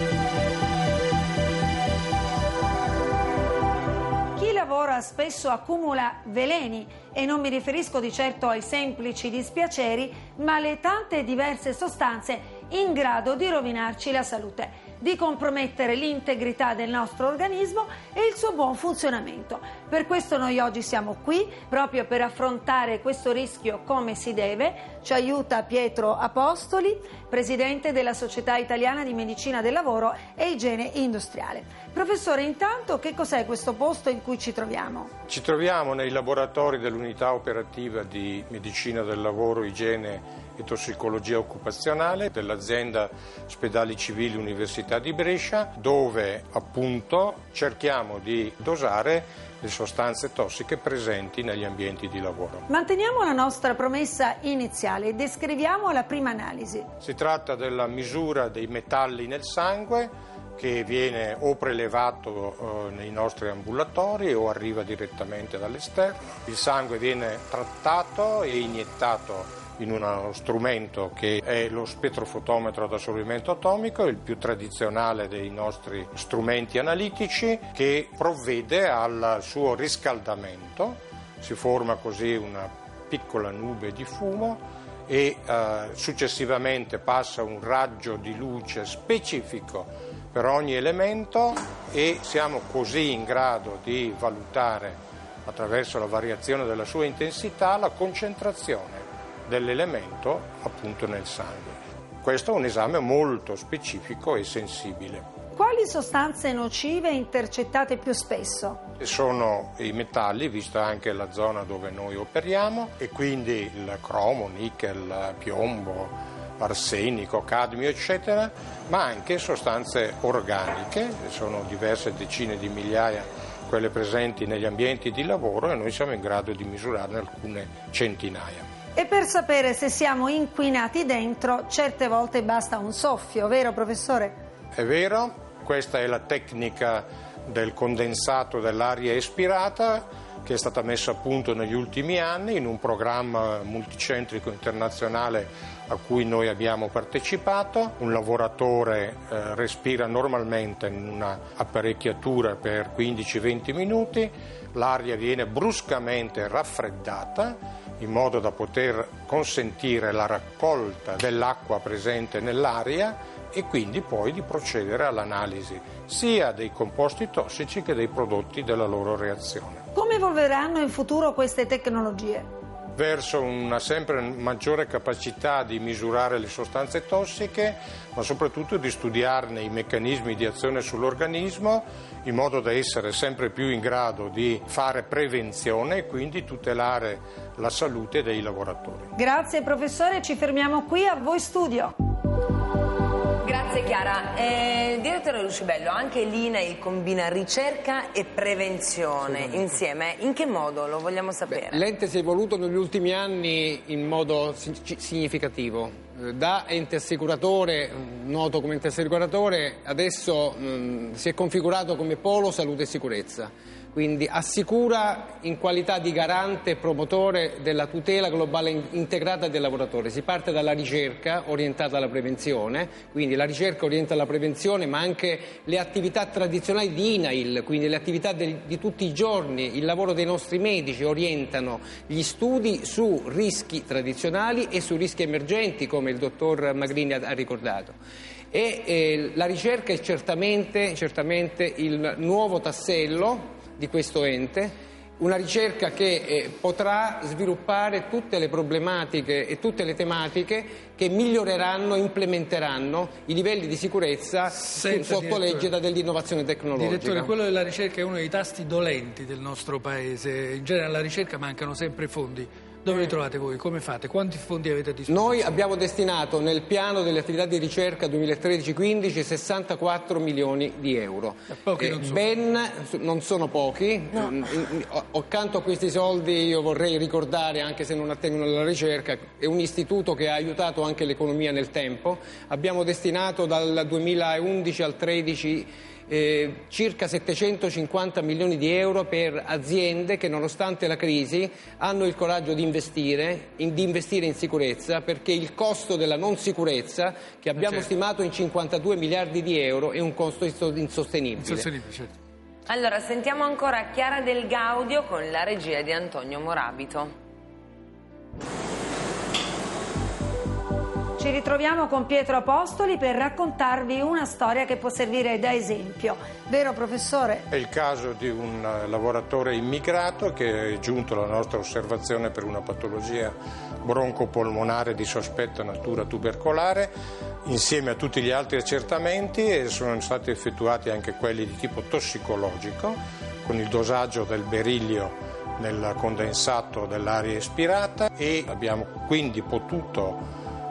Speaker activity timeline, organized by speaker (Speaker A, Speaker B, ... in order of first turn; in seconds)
Speaker A: 4.4-35.1, 52.7-56.9, 105.5-108.8, 129.0-134.4, 169.9-172.5, 189.2-191.9, 311.2-317.5
Speaker B: 35.3-52.6, 57.0-105.2, 109.0-128.7, 134.8-169.8, 173.0-189.1, 317.5-326.9, 327.4-340.2
Speaker C: 193.4-201.8, 302.7-307.1
Speaker D: 199.3-199.6, 201.5-237.9, 238.5-257.3, 265.1-301.7
Speaker E: 254.6-255.7, 256.7-265.6, 271.6-272.2, 297.6-297.9, 301.4-302.1